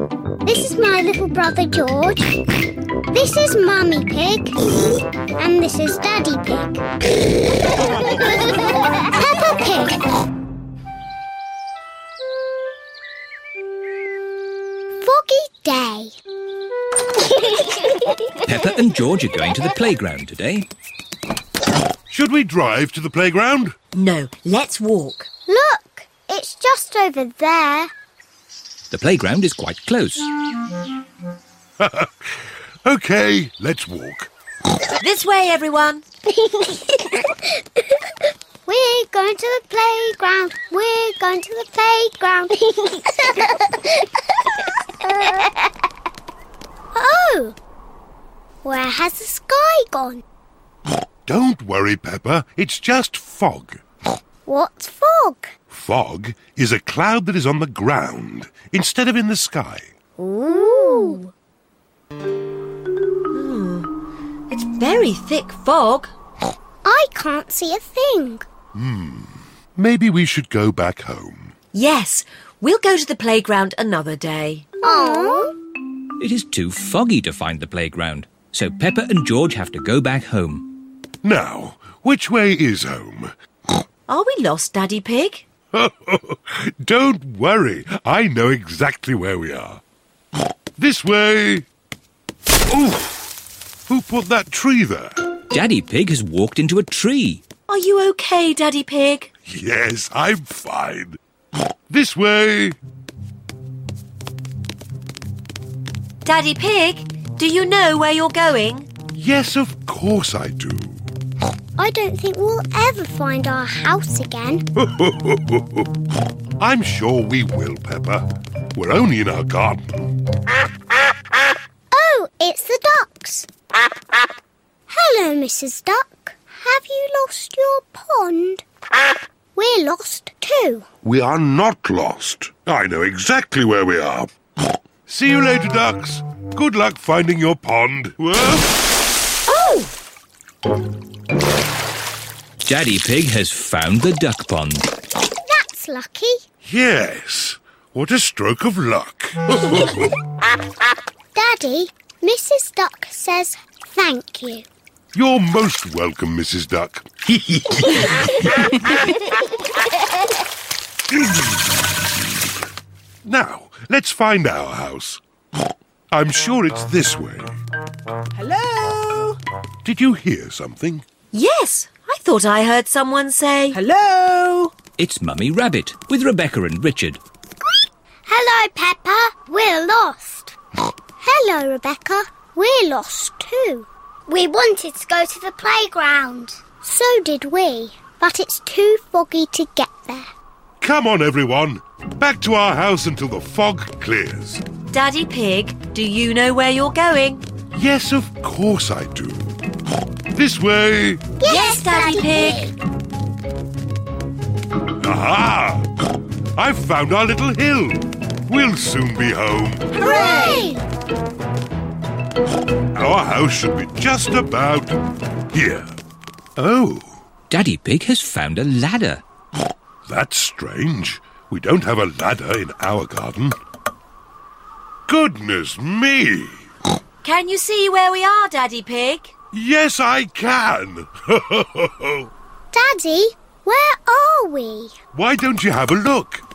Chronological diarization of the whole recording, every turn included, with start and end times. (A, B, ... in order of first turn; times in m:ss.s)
0:00.4-0:02.4 A
0:03.1-0:04.6 A
0:05.4-0:06.8 A
0:09.0-0:10.0 A
0:15.0-0:16.1 A
0:18.4-0:20.7 B
0:22.1-0:23.8 C
0:23.9-0:25.3 D
0:25.5-0:27.9 A
0:28.9-0:30.3 B
0:31.8-0:34.3 C
0:35.0-0:36.0 D
0:38.7-0:44.0 A
0:45.0-0:45.5 A
0:46.9-0:47.6 A
0:48.6-0:50.2 A
0:51.3-0:53.8 C
0:54.5-0:55.5 A
0:55.7-0:59.9 C
1:00.2-1:01.2 A
1:00.6-1:01.3 D
1:03.3-1:03.9 D
1:04.5-1:06.1 D
1:06.8-1:08.4 A
1:08.7-1:11.5 C
1:11.7-1:14.7 D
1:14.8-1:15.5 A
1:16.2-1:20.7 B
1:21.2-1:23.3 C
1:24.1-1:25.5 D
1:25.7-1:29.8 C
1:30.8-1:31.7 C
1:32.7-1:33.3 C
1:33.9-1:35.2 C
1:35.5-1:37.4 B
1:37.7-1:39.3 D
1:39.5-1:41.2 C
1:41.9-1:42.8 C
1:46.2-1:48.9 D
1:49.1-1:51.0 C
1:51.8-1:54.6 A
1:54.8-1:55.8 C
1:56.6-2:00.2 C
2:01.9-2:03.5 A
2:04.9-2:08.6 A
2:09.6-2:10.9 A
2:11.0-2:14.3 C
2:15.1-2:18.7 C
2:19.5-2:19.9 D
2:22.6-2:24.9 B
2:25.4-2:26.4 A
2:26.6-2:30.1 C
2:31.4-2:34.7 A
2:35.1-2:37.8 C
2:43.2-2:45.2 C
2:46.1-2:47.6 C
2:48.4-2:49.4 E
2:49.8-2:51.0 C
2:51.3-2:53.8 D
2:53.7-2:54.7 E
2:55.0-2:57.2 B
2:58.3-3:00.6 A
3:01.2-3:10.3 A
3:10.8-3:14.6 C
3:14.9-3:17.4 D
3:17.7-3:19.6 C
3:20.3-3:21.3 C
3:21.4-3:22.8 A
3:21.4-3:22.7 D
3:25.0-3:25.9 C
3:26.6-3:29.9 C
3:30.0-3:30.8 A
3:30.0-3:30.7 D
3:32.9-3:35.0 C
3:35.5-3:35.9 C
3:36.6-3:37.1 C
3:37.5-3:39.2 B
3:40.1-3:43.6 C
3:45.1-3:46.6 C
3:47.2-3:49.3 D
3:49.5-3:52.3 C
3:52.7-3:54.9 A
3:55.1-3:56.4 C